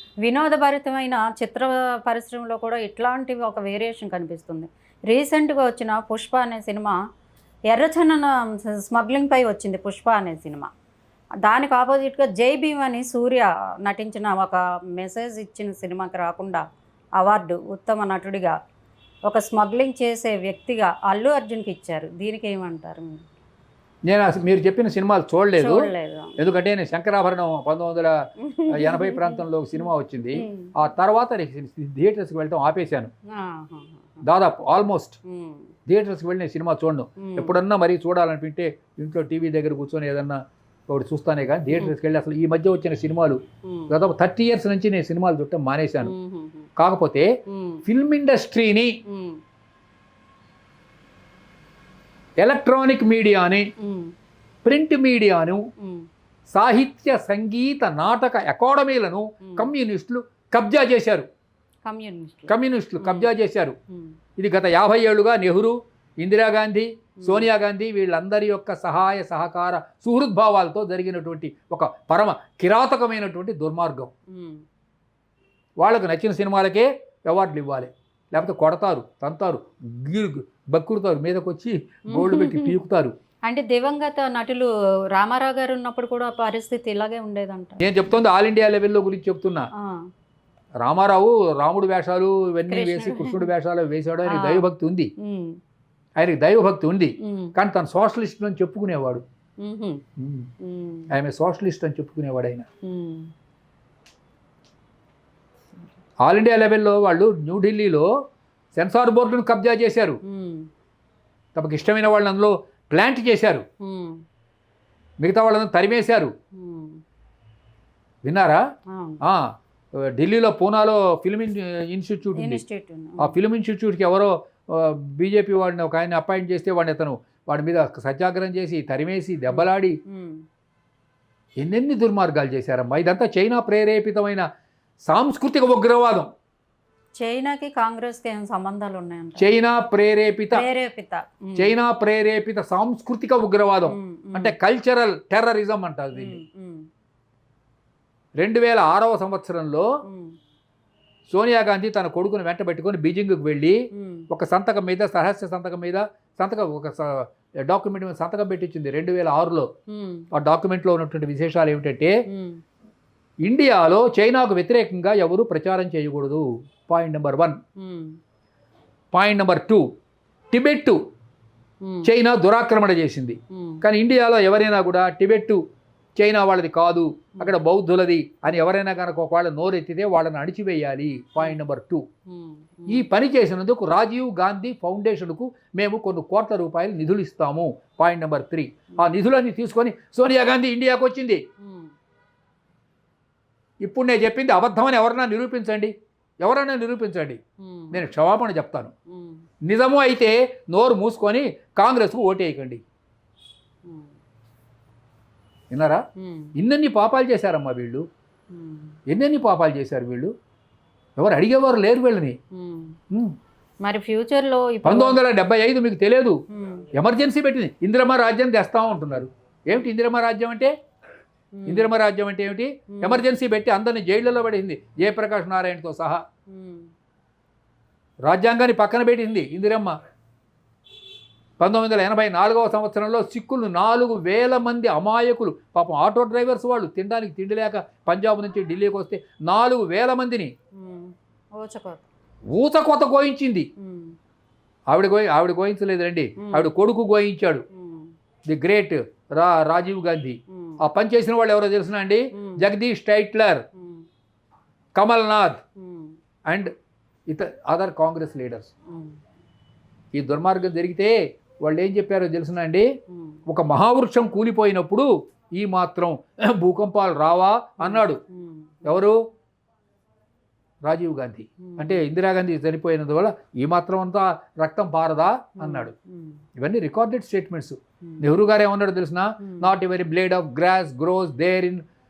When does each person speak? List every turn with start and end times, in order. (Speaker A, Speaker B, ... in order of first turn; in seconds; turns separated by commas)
Speaker A: 0.2-7.0, Speaker A: 7.7-10.7, Speaker A: 11.4-16.6, Speaker A: 17.2-18.5, Speaker A: 19.3-23.2, Speaker B: 24.1-28.1, Speaker A: 25.6-26.4, Speaker A: 28.4-30.7, Speaker B: 28.7-33.1, Speaker A: 33.3-34.2, Speaker B: 34.2-35.2, Speaker A: 35.3-35.7, Speaker B: 35.9-46.1, Speaker A: 37.2-37.5, Speaker A: 41.7-42.0, Speaker A: 43.6-43.9, Speaker A: 46.0-46.7, Speaker B: 46.8-47.3, Speaker A: 47.5-47.8, Speaker B: 47.9-48.9, Speaker A: 49.1-49.4, Speaker B: 52.4-53.7, Speaker A: 53.8-54.1, Speaker B: 54.6-55.6, Speaker A: 55.8-56.1, Speaker B: 56.5-61.3, Speaker A: 59.4-59.7, Speaker A: 61.8-63.3, Speaker B: 62.5-63.7, Speaker A: 63.9-64.2, Speaker B: 64.4-74.1, Speaker A: 67.2-67.5, Speaker A: 74.3-74.6, Speaker B: 75.8-83.1, Speaker A: 82.1-82.8, Speaker A: 83.5-87.8, Speaker B: 87.8-89.7, Speaker A: 89.8-90.1, Speaker B: 90.8-95.1, Speaker A: 92.7-93.5, Speaker A: 94.2-95.6, Speaker B: 96.2-99.2, Speaker A: 97.2-97.5, Speaker A: 99.6-100.0, Speaker B: 100.2-100.5, Speaker A: 100.6-101.1, Speaker B: 101.1-102.7, Speaker A: 102.8-103.3, Speaker B: 106.2-108.1, Speaker B: 108.8-110.2, Speaker A: 110.2-110.7, Speaker B: 111.5-113.6, Speaker A: 113.8-114.2, Speaker B: 115.2-116.3, Speaker A: 116.5-117.0, Speaker B: 118.2-118.6, Speaker A: 118.9-119.2, Speaker B: 120.0-122.6, Speaker A: 122.3-123.4, Speaker B: 123.2-130.0, Speaker A: 129.5-130.4, Speaker B: 131.6-134.4, Speaker B: 135.1-136.3, Speaker A: 137.2-139.5, Speaker B: 139.4-140.6, Speaker A: 140.5-141.7, Speaker B: 141.6-146.4, Speaker A: 143.9-144.5, Speaker A: 146.1-146.9, Speaker B: 148.4-149.9, Speaker A: 150.1-150.4, Speaker B: 151.3-153.8, Speaker A: 153.9-154.3, Speaker B: 154.3-159.7, Speaker A: 159.9-160.2, Speaker B: 160.3-162.1, Speaker A: 162.3-162.6, Speaker B: 163.4-167.6, Speaker A: 167.8-168.2, Speaker B: 169.1-169.8, Speaker B: 170.5-171.0, Speaker A: 171.8-172.1, Speaker B: 172.0-175.6, Speaker A: 173.5-173.8, Speaker B: 176.2-182.1, Speaker A: 182.3-183.1, Speaker B: 182.9-191.4, Speaker A: 191.6-191.9, Speaker B: 193.8-197.4, Speaker A: 197.6-198.0, Speaker B: 197.9-198.9, Speaker A: 199.1-199.4, Speaker B: 199.6-202.8, Speaker A: 203.8-204.1, Speaker B: 205.7-206.0, Speaker A: 206.2-206.5, Speaker B: 206.6-208.1, Speaker A: 208.5-209.0, Speaker B: 209.1-210.3, Speaker B: 211.2-212.4, Speaker A: 212.5-213.0, Speaker A: 213.8-215.2, Speaker B: 214.8-216.4, Speaker A: 216.5-216.9, Speaker B: 216.9-220.7, Speaker A: 221.5-221.9, Speaker B: 221.7-226.2, Speaker A: 222.9-223.2, Speaker A: 226.5-226.9, Speaker B: 228.2-229.9, Speaker B: 231.6-240.5, Speaker A: 240.8-242.1, Speaker B: 242.5-243.7, Speaker A: 243.8-244.2, Speaker B: 244.9-247.6, Speaker A: 246.4-246.7, Speaker A: 247.7-248.1, Speaker B: 248.5-253.7, Speaker A: 250.5-250.8, Speaker A: 252.3-252.7, Speaker A: 253.8-254.1, Speaker B: 254.9-255.6, Speaker A: 255.8-256.2, Speaker B: 257.3-258.7, Speaker A: 258.9-259.2, Speaker B: 260.1-262.9, Speaker A: 263.1-263.4, Speaker B: 263.5-268.2, Speaker A: 267.8-269.1, Speaker B: 268.9-269.2, Speaker B: 270.8-275.9, Speaker A: 271.6-272.0, Speaker A: 275.6-276.4, Speaker B: 276.6-281.8, Speaker A: 279.4-279.7